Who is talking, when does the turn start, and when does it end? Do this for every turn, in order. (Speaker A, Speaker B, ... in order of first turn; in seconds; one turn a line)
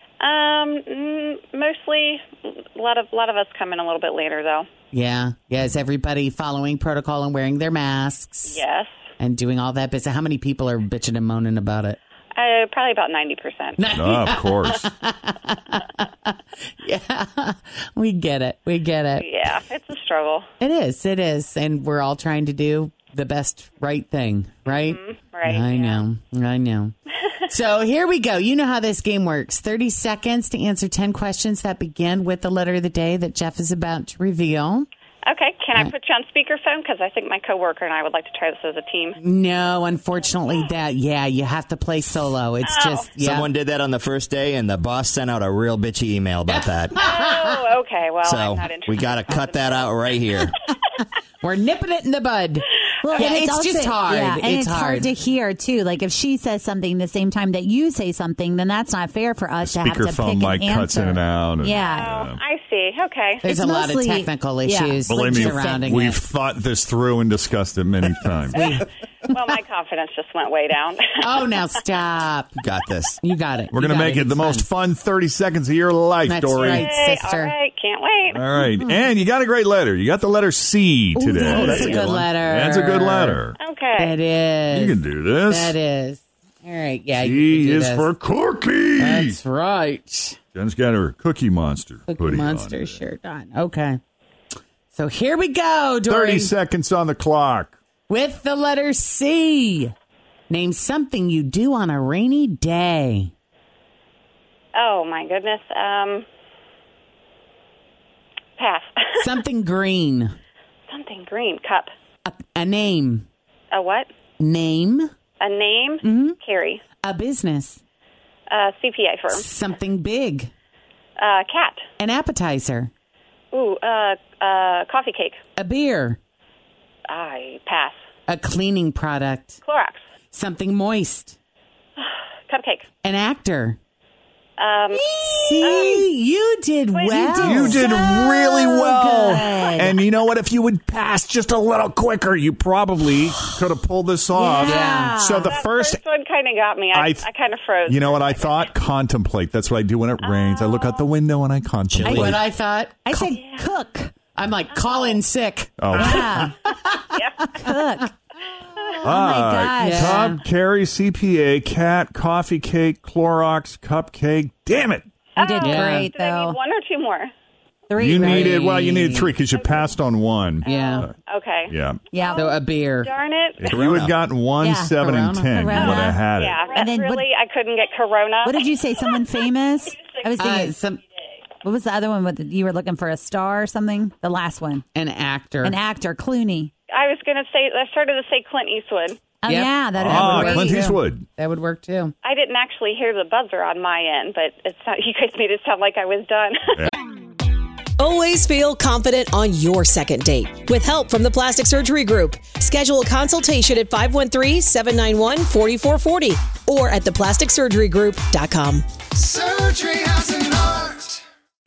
Speaker A: 0.2-4.7
Speaker B: 4.9-8.6
Speaker A: 8.5-8.9
Speaker B: 9.2-12.0
Speaker A: 12.3-13.8
Speaker B: 13.8-19.3
Speaker C: 13.9-14.8
Speaker A: 19.2-20.5
Speaker B: 20.6-26.9
Speaker A: 24.7-26.1
Speaker B: 27.5-34.9
Speaker A: 35.3-39.2
Speaker B: 39.2-43.5
Speaker A: 42.6-43.1
Speaker D: 43.2-47.0
Speaker B: 46.5-47.6
Speaker A: 47.0-50.4
Speaker D: 48.2-50.5
Speaker B: 51.4-55.1
Speaker E: 53.0-62.1
Speaker C: 59.6-62.4
Speaker A: 61.8-63.4
Speaker B: 63.4-66.2
Speaker E: 63.4-65.9
Speaker C: 65.1-68.8
Speaker B: 68.5-69.3
Speaker A: 68.6-71.7
Speaker B: 71.2-72.5
Speaker D: 72.6-73.2
Speaker B: 73.2-74.7
Speaker C: 73.7-76.9
Speaker B: 76.3-77.5
Speaker A: 76.6-78.5
Speaker C: 78.3-83.6
Speaker B: 81.2-83.4
Speaker D: 81.5-82.3
Speaker A: 83.6-84.2
Speaker B: 84.0-88.1
Speaker C: 84.7-85.8
Speaker C: 87.2-89.4
Speaker B: 89.0-90.4
Speaker C: 90.5-93.0
Speaker B: 92.1-94.0
Speaker B: 94.9-96.5
Speaker C: 96.1-97.8
Speaker B: 98.1-99.9
Speaker B: 100.5-103.3
Speaker A: 104.8-106.2
Speaker A: 108.6-109.2
Speaker B: 109.2-110.3
Speaker A: 110.9-111.9
Speaker B: 112.3-113.3
Speaker A: 113.7-114.1
Speaker B: 114.4-115.1
Speaker A: 115.4-116.8
Speaker B: 116.0-116.4
Speaker B: 117.0-117.8
Speaker A: 118.5-119.5
Speaker B: 119.3-120.5
Speaker A: 121.2-121.8
Speaker B: 122.0-122.9
Speaker A: 123.5-125.4
Speaker B: 125.6-126.2
Speaker A: 127.1-128.0
Speaker B: 128.3-129.6
Speaker A: 129.7-130.0
Speaker B: 130.3-131.4
Speaker A: 132.0-132.9
Speaker B: 133.0-133.8
Speaker A: 134.6-135.1
Speaker B: 134.9-137.8
Speaker A: 135.6-136.1
Speaker A: 136.9-137.4
Speaker E: 137.1-139.9
Speaker C: 137.4-146.0
Speaker E: 144.3-145.5
Speaker B: 144.6-145.2
Speaker A: 145.5-148.7
Speaker C: 146.9-147.3
Speaker C: 147.9-152.4
Speaker A: 150.3-151.0
Speaker D: 151.9-152.4
Speaker B: 152.1-153.4
Speaker E: 153.1-154.1
Speaker B: 154.3-157.7
Speaker C: 155.8-156.5
Speaker E: 156.0-156.6
Speaker A: 157.1-157.6
Speaker E: 157.5-158.1
Speaker E: 159.0-160.3
Speaker C: 159.0-165.1
Speaker B: 159.8-160.4
Speaker A: 165.4-167.3
Speaker E: 165.4-166.6
Speaker B: 165.6-166.1
Speaker E: 167.9-168.9
Speaker C: 168.0-171.1
Speaker B: 168.1-169.3
Speaker A: 169.6-169.9
Speaker A: 170.6-174.0
Speaker B: 170.7-171.1
Speaker C: 171.7-172.0
Speaker E: 172.1-172.4
Speaker B: 172.3-173.1
Speaker C: 173.6-176.6
Speaker D: 173.7-174.1
Speaker E: 174.6-175.0
Speaker B: 175.0-175.5
Speaker E: 175.5-176.2
Speaker A: 176.4-178.6
Speaker E: 176.7-177.3
Speaker E: 178.4-180.7
Speaker B: 180.4-181.0
Speaker E: 181.6-184.8
Speaker B: 184.9-185.8
Speaker E: 185.6-186.7
Speaker A: 186.9-189.2
Speaker E: 189.4-190.9
Speaker B: 189.5-192.1
Speaker C: 190.0-191.3
Speaker A: 192.2-196.8
Speaker F: 198.0-209.3